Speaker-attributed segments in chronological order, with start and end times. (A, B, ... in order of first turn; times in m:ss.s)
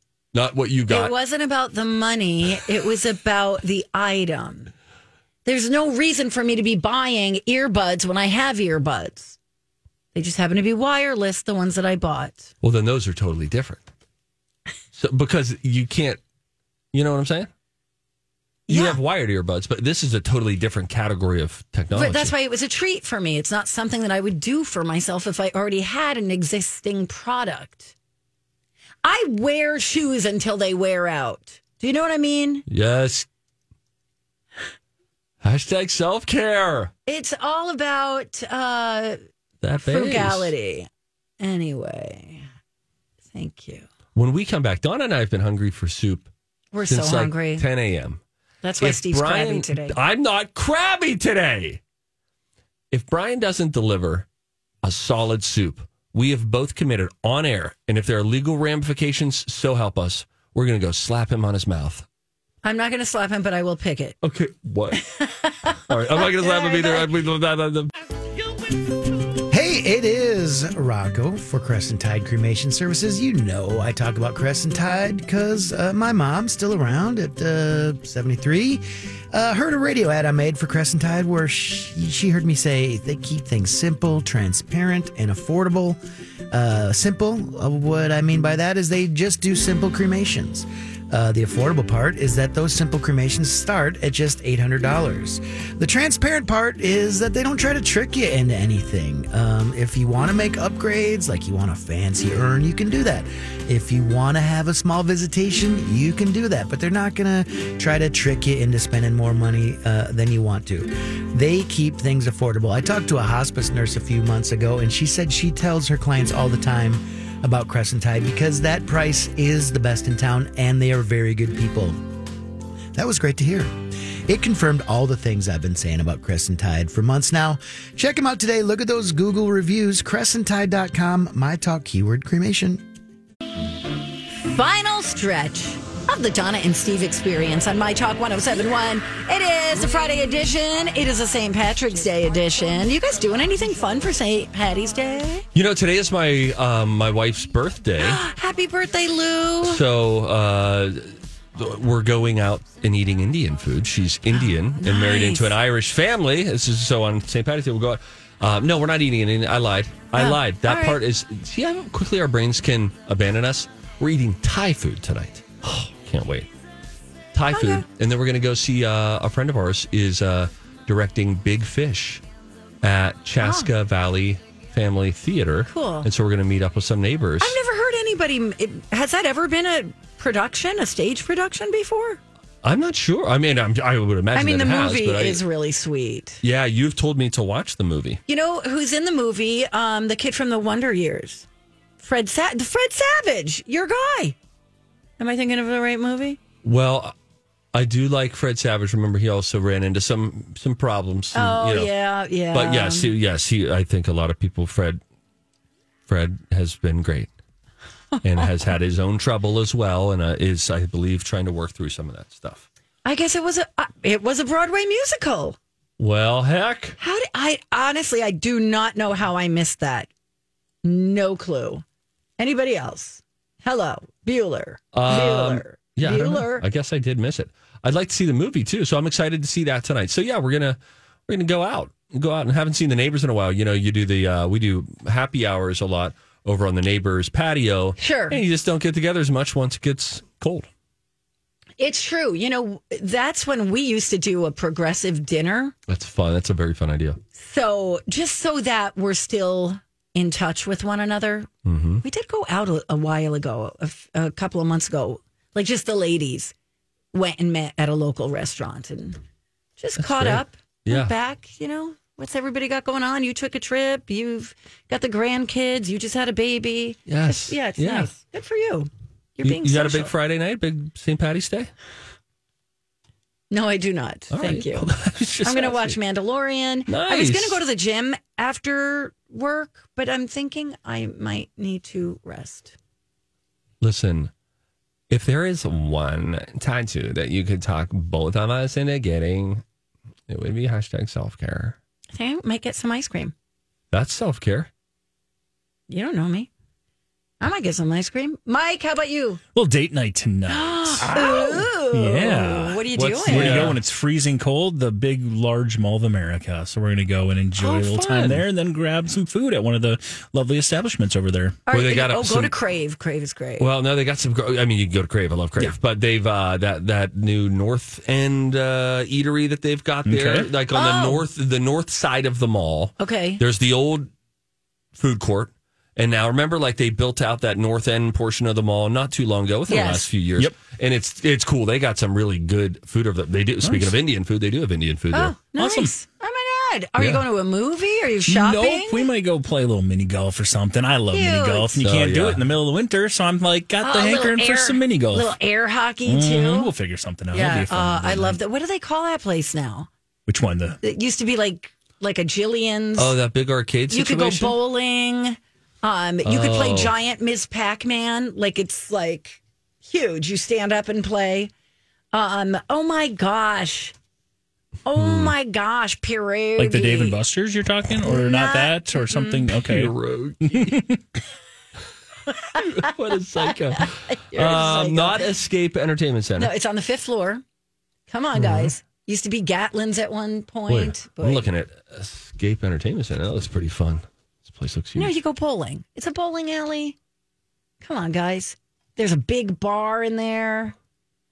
0:00.3-0:01.1 A
0:00.9-0:04.7 B
0:05.4-0:09.4 B
0:10.2-0:12.5 B
0:12.6-0:13.9 A
0:14.9-0:16.2 A
0:16.9-0:17.5 A
0:18.7-0:19.0 B
0:18.7-0:22.3 A
0:21.9-0:27.9 B
0:29.0-0:32.6 B
0:32.7-0:33.3 A
0:35.4-0:36.9 A
0:37.1-0:39.2 B
0:39.6-0:40.5 A
0:39.8-0:40.9 B
0:41.4-0:42.4 B
0:43.3-0:43.9 B
0:44.2-0:46.3 A
0:46.7-0:47.6 B
0:46.8-0:48.2 A
0:48.6-0:50.0 B
0:48.8-0:51.8 A
0:52.9-0:54.3 A
0:54.8-1:02.0 A
1:02.6-1:04.2 B
1:04.2-1:05.0 A
1:05.2-1:07.1 B
1:05.9-1:07.9 A
1:09.4-1:26.0 C
1:26.5-2:02.0 C
2:03.0-2:12.8 C
2:14.4-2:25.4 B
2:25.5-2:28.2 A
2:28.0-2:29.8 B
2:29.6-2:31.0 A
2:31.6-2:46.5 A
2:34.3-2:35.5 B
2:40.2-2:41.0 B
2:47.3-2:52.2 A
2:47.5-2:47.8 B
2:52.8-2:57.6 A
2:53.4-2:53.7 B
2:55.7-2:56.1 B
2:57.4-3:02.2 B
3:02.6-3:05.4 A
3:04.3-3:06.4 B
3:06.4-3:08.2 A
3:08.3-3:11.5 B
3:12.0-3:14.4 B
3:15.2-3:16.4 B
3:16.6-3:17.1 A
3:17.7-3:21.9 A
3:21.3-3:23.1 B
3:22.5-3:25.0 A
3:26.1-3:27.3 A
3:28.2-3:32.7 A
3:33.0-3:35.6 B
3:36.0-3:37.0 A
3:37.0-3:40.1 B
3:40.8-3:41.8 B
3:42.4-3:46.6 B
3:44.9-4:00.7 A
3:58.0-3:58.4 B
4:01.8-4:05.7 B
4:05.9-4:07.2 A
4:07.3-4:11.5 B
4:11.7-4:12.0 A
4:12.0-4:16.5 B
4:17.1-4:19.2 B
4:19.8-4:30.1 B
4:20.0-4:21.1 A
4:27.1-4:28.1 A
4:29.4-4:31.7 A
4:33.5-4:34.9 B
4:34.3-4:36.0 A
4:35.4-4:42.8 B
4:36.9-4:37.6 A
4:43.8-4:44.3 A
4:45.1-4:49.6 A
4:50.3-4:51.8 A
4:52.1-4:53.3 B
4:53.9-4:54.7 A
4:55.9-4:56.5 B
4:57.4-4:59.4 B
4:59.6-5:11.6 D
5:00.5-5:03.8 B
5:03.2-5:03.8 A
5:07.6-5:08.4 A
5:11.7-5:13.7 B
5:11.7-5:12.5 A
5:13.6-5:24.1 A
5:20.1-5:20.5 D
5:20.7-5:21.2 B
5:23.0-5:23.4 B
5:25.0-5:35.4 A
5:29.7-5:30.1 B
5:33.6-5:34.0 D
5:35.1-5:39.1 B
5:35.6-5:35.9 D
5:38.2-5:45.4 D
5:41.1-5:41.8 B
5:41.8-5:42.5 A
5:43.8-5:46.7 B
5:46.0-5:48.4 D
5:47.3-5:49.9 B
5:50.3-5:50.8 D
5:50.8-5:53.2 B
5:53.0-5:54.6 A
5:53.9-6:01.5 B
5:56.2-5:57.0 A
6:02.1-6:03.9 B
6:04.9-6:07.2 B
6:05.0-6:05.4 A
6:06.6-6:11.0 D
6:08.1-6:09.5 B
6:09.5-6:10.9 A
6:12.5-6:16.5 A
6:13.8-6:15.3 B
6:16.4-6:17.4 B
6:18.1-6:21.5 B
6:20.7-6:25.1 A
6:25.0-6:27.0 B
6:27.8-6:30.8 B